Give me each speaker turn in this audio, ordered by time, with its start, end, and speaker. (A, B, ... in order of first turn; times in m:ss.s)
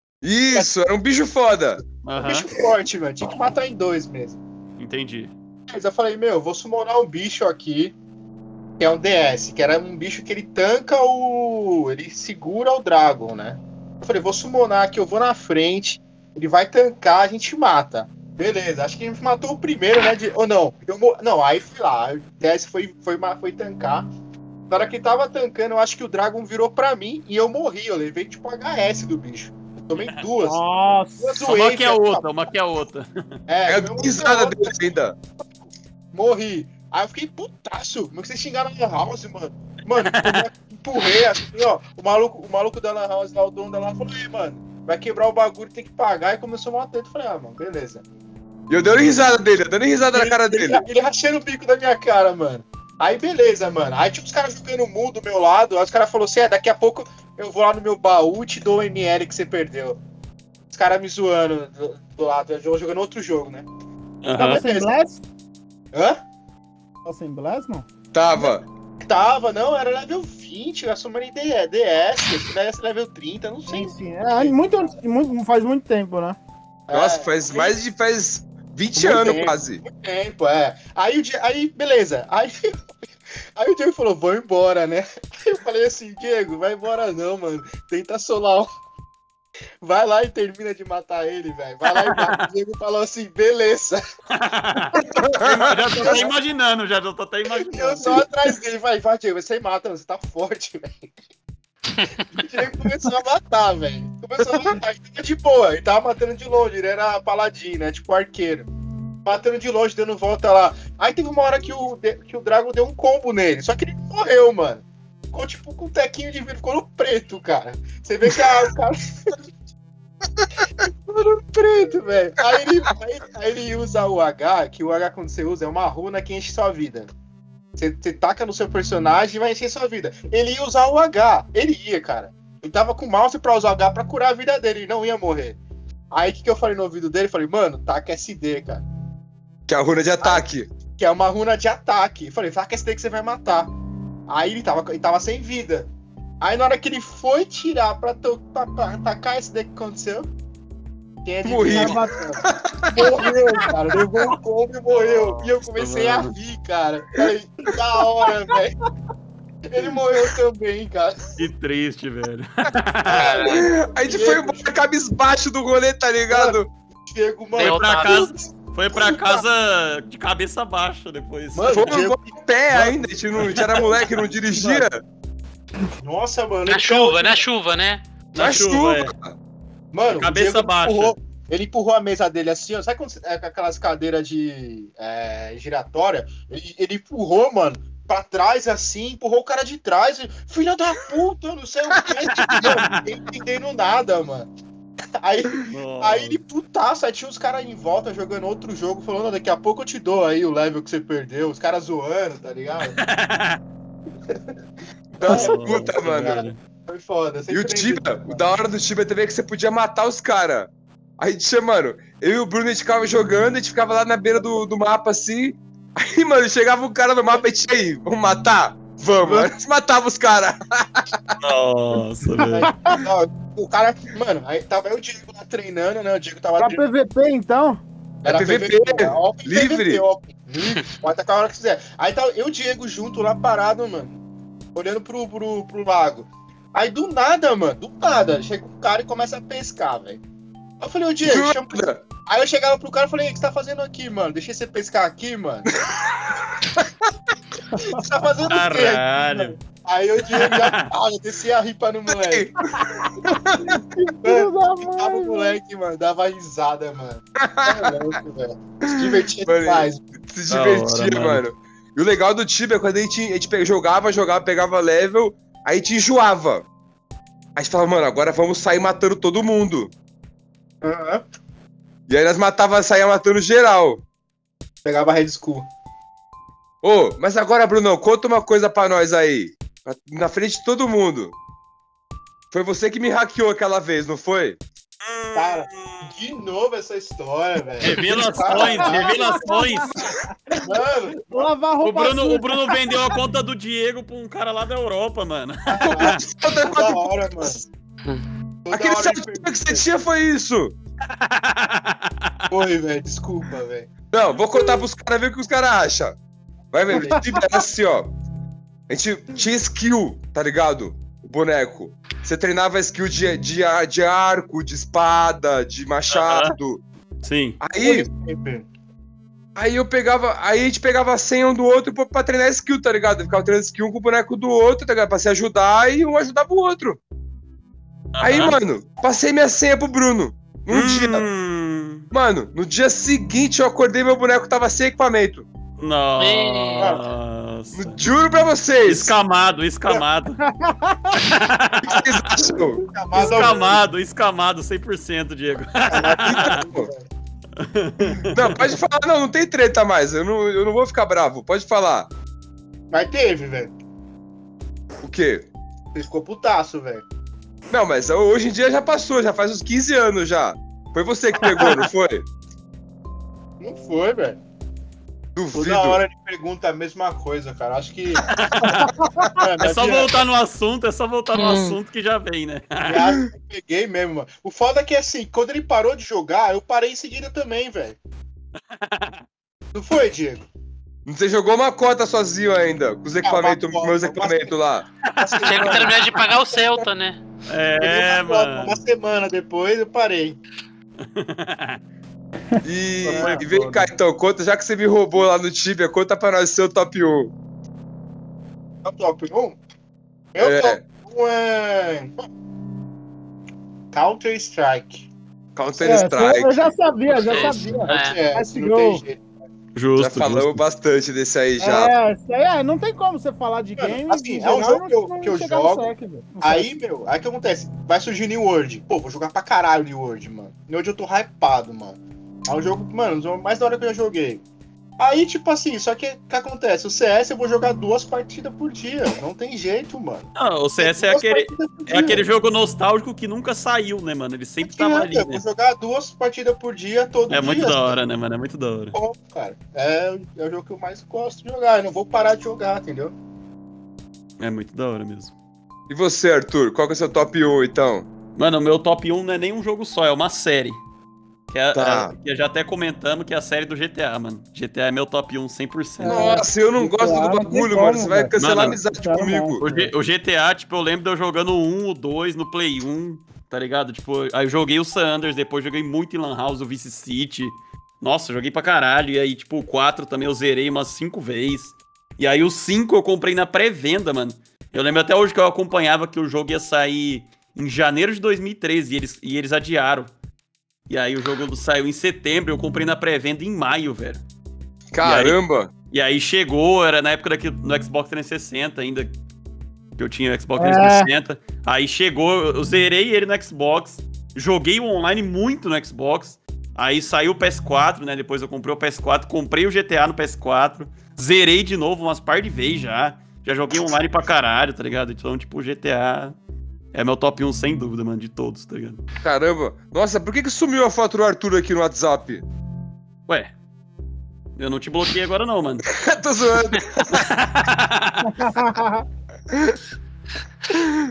0:00.2-0:01.8 A
0:02.0-0:02.5 B
0:02.2-0:04.4 C
0:04.8-0:05.3 B
0:05.7-0:07.9 C
0:08.8-0:24.1 C
0:24.7-0:30.6 C
0:30.4-0:31.4 D
0:31.2-0:32.3 C
0:31.4-0:33.1 B
0:33.5-0:34.7 C
0:33.7-0:35.2 A
0:36.1-0:48.0 C
0:40.0-0:40.5 B
0:48.7-0:50.8 A
0:50.1-1:00.0 C
1:00.7-1:03.7 C
1:04.2-1:04.6 B
1:04.4-1:05.2 D
1:04.4-1:04.9 C
1:05.9-1:06.2 C
1:07.0-1:07.8 D
1:08.1-1:08.6 A
1:08.4-1:14.6 C
1:13.7-1:16.4 D
1:16.9-1:17.8 C
1:16.9-1:19.8 A
1:18.9-1:22.8 C
1:23.6-1:28.7 C
1:29.8-1:34.0 C
1:32.0-1:32.3 B
1:34.3-1:38.2 B
1:35.2-1:36.3 A
1:35.7-1:36.3 C
1:37.6-1:41.1 C
1:41.9-1:42.3 E
1:42.3-1:48.7 C
1:49.2-1:59.4 C
2:00.8-2:07.1 C
2:07.8-2:15.6 C
2:16.1-2:18.8 C
2:19.7-2:20.7 A
2:21.0-2:23.7 C
2:24.3-2:25.9 C
2:26.4-2:30.3 C
2:31.2-2:38.7 C
2:31.4-2:33.0 A
2:31.7-2:32.3 D
2:33.0-2:33.7 D
2:34.9-2:36.3 B
2:39.6-2:41.3 C
2:41.4-2:43.6 B
2:43.1-2:44.7 C
2:43.2-2:43.6 E
2:43.3-2:46.7 A
2:46.3-2:49.4 C
2:47.6-2:48.3 E
2:47.6-2:52.0 B
2:51.5-2:54.8 C
2:51.7-2:55.0 A
2:53.4-2:53.8 B
2:56.0-2:57.4 C
2:56.7-2:58.0 E
2:58.3-2:59.1 B
2:58.4-2:59.3 A
2:59.9-3:14.5 C
3:00.1-3:01.2 B
3:12.4-3:13.0 B
3:15.2-3:23.0 C
3:15.5-3:16.4 B
3:22.8-3:23.6 B
3:25.2-3:26.4 A
3:25.2-3:26.6 B
3:25.2-3:28.5 C
3:27.5-3:41.4 A
3:39.1-3:39.5 C
3:41.4-3:42.7 B
3:42.4-3:43.0 D
3:42.5-3:46.8 C
3:46.6-3:47.8 D
3:48.2-3:54.2 C
3:48.3-3:50.0 A
3:54.7-4:00.2 C
4:00.8-4:05.7 C
4:01.2-4:02.0 A
4:07.7-4:08.0 D
4:07.8-4:12.5 C
4:08.5-4:09.6 B
4:10.3-4:10.9 B
4:12.2-4:13.8 A
4:13.9-4:15.6 D
4:14.2-4:20.0 C
4:17.4-4:17.9 A
4:18.9-4:26.6 A
4:20.5-4:21.4 B
4:27.6-4:29.9 A
4:30.8-4:31.2 C
4:32.1-4:34.0 A
4:34.8-4:35.7 C
4:36.8-4:41.3 A
4:42.5-4:44.6 A
4:45.0-4:46.1 B
4:45.3-4:49.6 C
4:47.8-4:50.0 B
4:48.4-4:50.2 D
4:50.6-4:51.5 C
4:51.3-4:53.2 D
4:51.8-4:56.2 B
4:55.7-4:57.6 C
4:55.8-4:57.6 A
4:58.6-4:59.8 C
4:58.7-5:00.7 A
5:01.1-5:02.5 B
5:02.5-5:03.9 C
5:04.1-5:06.2 A
5:06.7-5:08.1 A
5:06.9-5:07.2 C
5:08.9-5:16.8 A
5:16.1-5:16.5 B
5:17.2-5:17.6 B
5:17.6-5:18.1 A
5:17.8-5:18.7 C
5:19.5-5:27.0 A
5:28.1-5:28.6 B
5:28.2-5:31.2 A
5:30.7-5:32.1 B
5:32.1-5:35.4 A
5:35.8-5:38.1 B
5:36.2-5:37.0 E
5:37.7-5:39.1 A
5:38.8-5:40.4 B
5:40.4-5:41.2 D
5:41.1-5:42.6 B
5:41.8-5:42.8 A
5:42.8-5:43.8 C
5:43.1-5:46.6 B
5:45.9-5:47.1 C
5:46.2-5:46.9 A
5:47.6-5:48.7 B
5:48.3-5:52.1 A
5:52.9-5:53.7 C
5:55.0-5:55.5 A
5:55.9-5:57.0 C
5:57.7-6:02.2 A
6:03.6-6:04.4 C
6:05.3-6:06.0 A
6:05.5-6:08.4 C
6:08.3-6:08.9 B
6:08.6-6:09.3 D
6:09.3-6:10.2 C
6:09.6-6:13.1 B
6:11.3-6:11.8 E
6:12.8-6:18.0 C
6:18.7-6:19.2 B
6:19.7-6:20.4 C
6:21.0-6:24.8 A
6:23.2-6:24.6 C
6:25.1-6:26.0 B
6:25.2-6:26.8 C
6:25.4-6:27.2 E
6:27.5-6:28.8 B
6:27.8-6:30.4 C
6:31.0-6:31.8 B
6:32.5-6:33.8 D
6:32.6-6:37.3 A
6:33.1-6:33.7 B
6:38.8-6:39.6 C
6:40.3-6:42.2 C
6:40.4-6:40.8 A
6:43.9-6:45.1 C
6:45.5-6:46.7 A
6:45.8-6:49.0 D
6:47.2-6:48.2 E
6:47.3-6:49.2 C
6:49.7-6:50.6 B
6:50.0-6:51.9 A
6:51.6-6:56.7 D
6:53.8-6:55.9 C
6:56.4-7:04.4 C
7:05.0-7:12.2 C
7:10.4-7:15.4 B
7:14.6-7:18.0 C
7:17.3-7:19.0 B
7:18.9-7:23.1 C
7:24.4-7:25.3 B
7:25.9-7:28.1 A
7:28.4-7:30.8 B
7:31.5-7:36.4 B
7:31.7-7:32.1 A
7:36.0-7:39.9 D
7:36.0-7:39.6 A
7:38.4-7:38.8 B
7:39.6-8:00.1 B
8:00.9-8:04.2 B
8:04.9-8:05.7 A
8:05.0-8:05.4 B
8:05.9-8:09.1 B
8:10.0-8:26.3 B
8:10.6-8:11.1 D
8:26.9-8:29.0 B
8:29.2-8:32.4 A
8:34.6-8:35.8 B
8:35.9-8:37.3 A
8:37.1-8:38.3 B
8:38.2-8:39.0 D
8:39.5-8:39.8 A